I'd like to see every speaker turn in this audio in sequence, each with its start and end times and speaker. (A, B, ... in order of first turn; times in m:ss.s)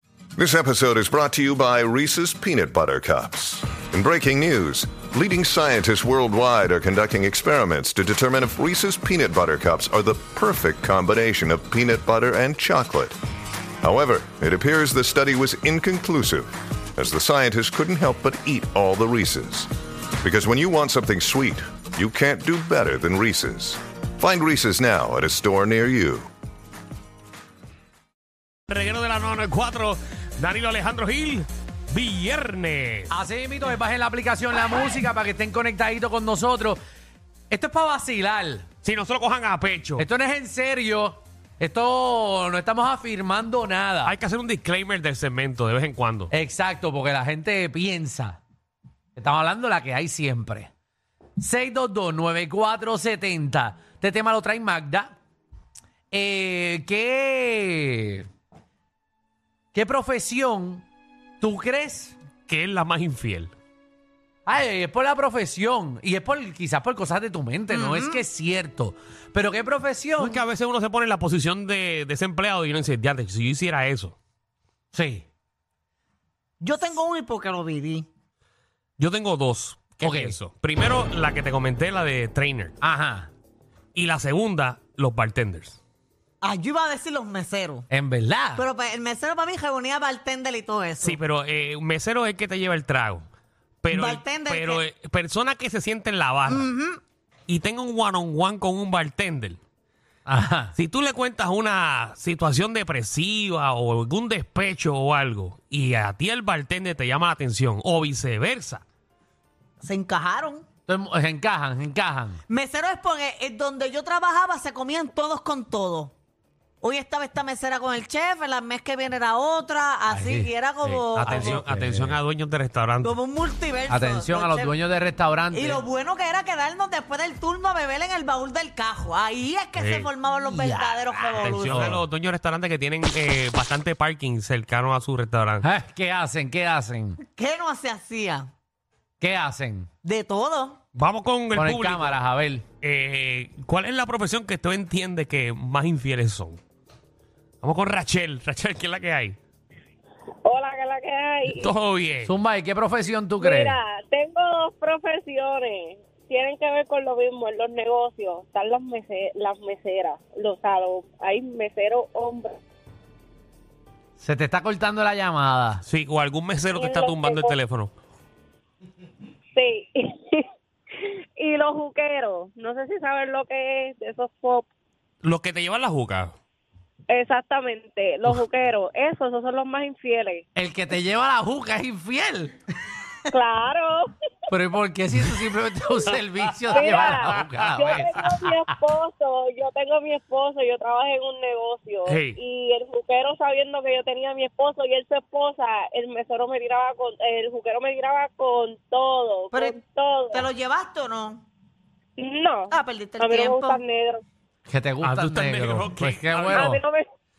0:00.4-0:13.2 A
0:13.8-0:26.3 A
0:28.7-0:33.1 B
0:33.1-0:36.8 C
0:37.5-0:38.7 C
0:38.8-0:40.1 B
0:40.0-0:44.2 C
0:44.0-0:46.3 B
0:46.3-0:48.4 C
0:49.2-0:50.7 C
0:51.4-0:55.2 C
0:56.1-0:58.3 C
0:59.7-1:00.8 C
1:01.4-1:02.2 C
1:02.5-1:03.5 B
1:04.5-1:10.4 C
1:07.7-1:08.2 D
1:10.2-1:14.2 B
1:14.9-1:15.3 C
1:16.6-1:18.1 D
1:19.0-1:22.8 B
1:20.0-1:20.4 C
1:22.8-1:23.3 C
1:24.0-1:25.8 B
1:26.4-1:27.8 D
1:27.9-1:28.6 C
1:28.6-1:31.2 D
1:31.0-1:33.3 B
1:33.8-1:36.7 B
1:33.9-1:34.8 D
1:36.5-1:37.0 D
1:37.5-1:39.6 B
1:40.3-1:40.8 C
1:40.8-1:48.8 B
1:49.8-1:50.6 D
1:50.9-1:52.4 C
1:52.5-1:56.1 D
1:56.8-2:01.6 D
2:00.1-2:00.5 C
2:00.8-2:03.2 B
2:01.2-2:02.2 C
2:03.0-2:04.7 D
2:03.9-2:05.8 C
2:05.5-2:12.0 D
2:09.8-2:10.1 B
2:10.5-2:12.0 C
2:11.0-2:15.7 B
2:15.6-2:17.2 C
2:17.2-2:18.5 D
2:19.2-2:19.9 C
2:20.0-2:20.8 D
2:21.0-2:22.2 B
2:21.5-2:22.7 C
2:22.8-2:26.6 B
2:27.6-2:29.4 B
2:30.4-2:31.7 E
2:31.5-2:32.3 B
2:32.2-2:33.8 C
2:33.4-2:42.6 E
2:44.2-2:45.8 C
2:45.9-2:47.9 B
2:46.7-2:47.5 E
2:49.6-2:50.4 E
2:51.0-2:54.7 E
2:55.2-2:56.3 B
2:57.1-3:00.4 E
3:00.6-3:02.6 C
3:03.3-3:04.1 E
3:04.5-3:08.7 C
3:06.1-3:08.0 B
3:06.7-3:20.5 E
3:12.1-3:12.4 B
3:19.5-3:19.8 D
3:20.3-3:21.4 D
3:22.2-3:24.2 E
3:22.7-3:23.8 D
3:24.7-3:26.8 C
3:25.0-3:26.8 B
3:26.5-3:27.0 E